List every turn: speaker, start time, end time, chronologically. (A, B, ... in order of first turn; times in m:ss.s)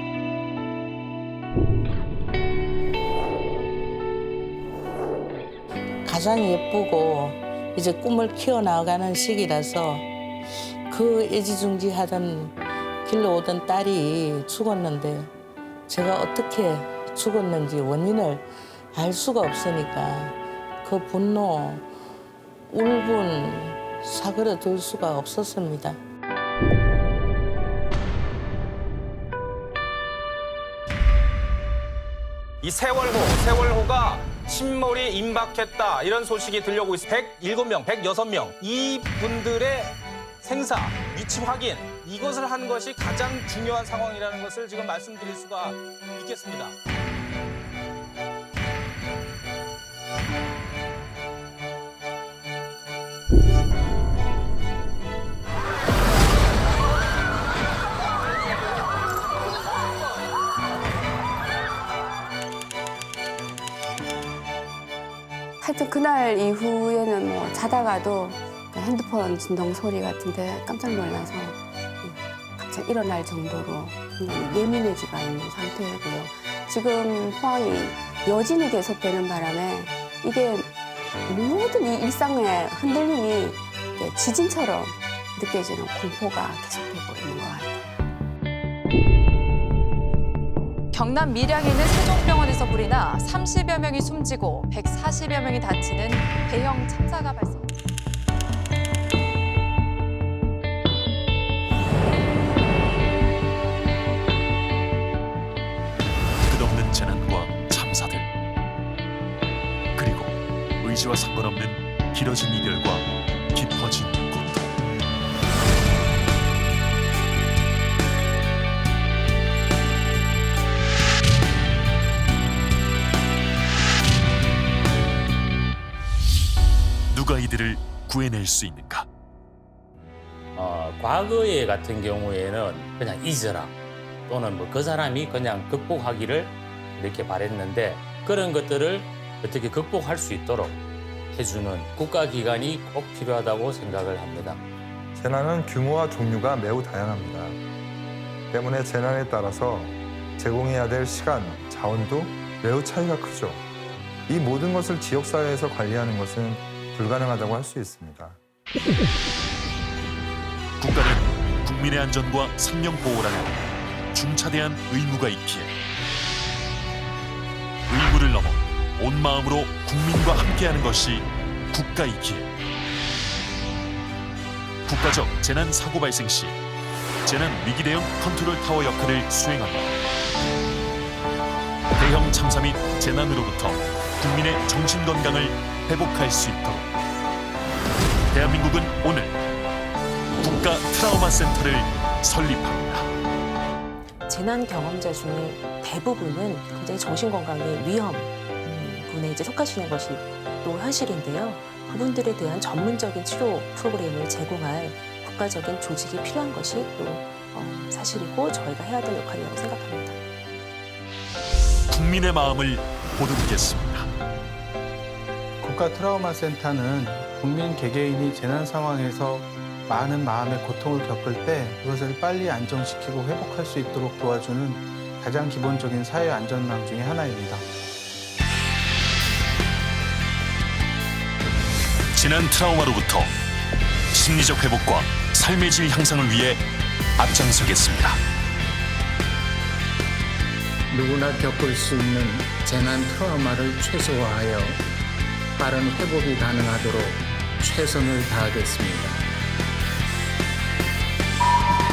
0:06.0-0:10.1 A
0:10.9-0:15.3 A
0:15.9-0:21.8 A
0:22.7-0:26.0 A
0:32.6-0:46.8 B
1:05.6-1:20.7 C
1:21.3-1:28.1 C
1:30.9-1:37.7 D
1:46.5-1:48.3 E
1:50.0-1:54.8 E
2:07.1-2:09.1 E
2:10.6-2:13.7 F
2:14.3-2:20.8 F
2:21.3-2:24.6 F
2:25.2-2:27.6 G
2:28.5-2:33.6 G
2:34.3-2:38.4 G
2:40.8-2:43.6 E
2:44.1-2:45.7 E
2:47.9-2:52.5 E
2:54.9-2:56.6 E
2:57.2-3:00.0 E
3:02.0-3:06.9 E
3:08.3-3:09.4 E
3:10.4-3:13.1 E
3:14.3-3:30.2 H
3:31.9-3:34.1 E
3:35.6-3:47.7 I
3:52.1-3:53.3 E
3:54.1-3:56.6 E
3:57.2-3:58.2 E
4:00.9-4:04.8 J
4:05.6-4:09.2 J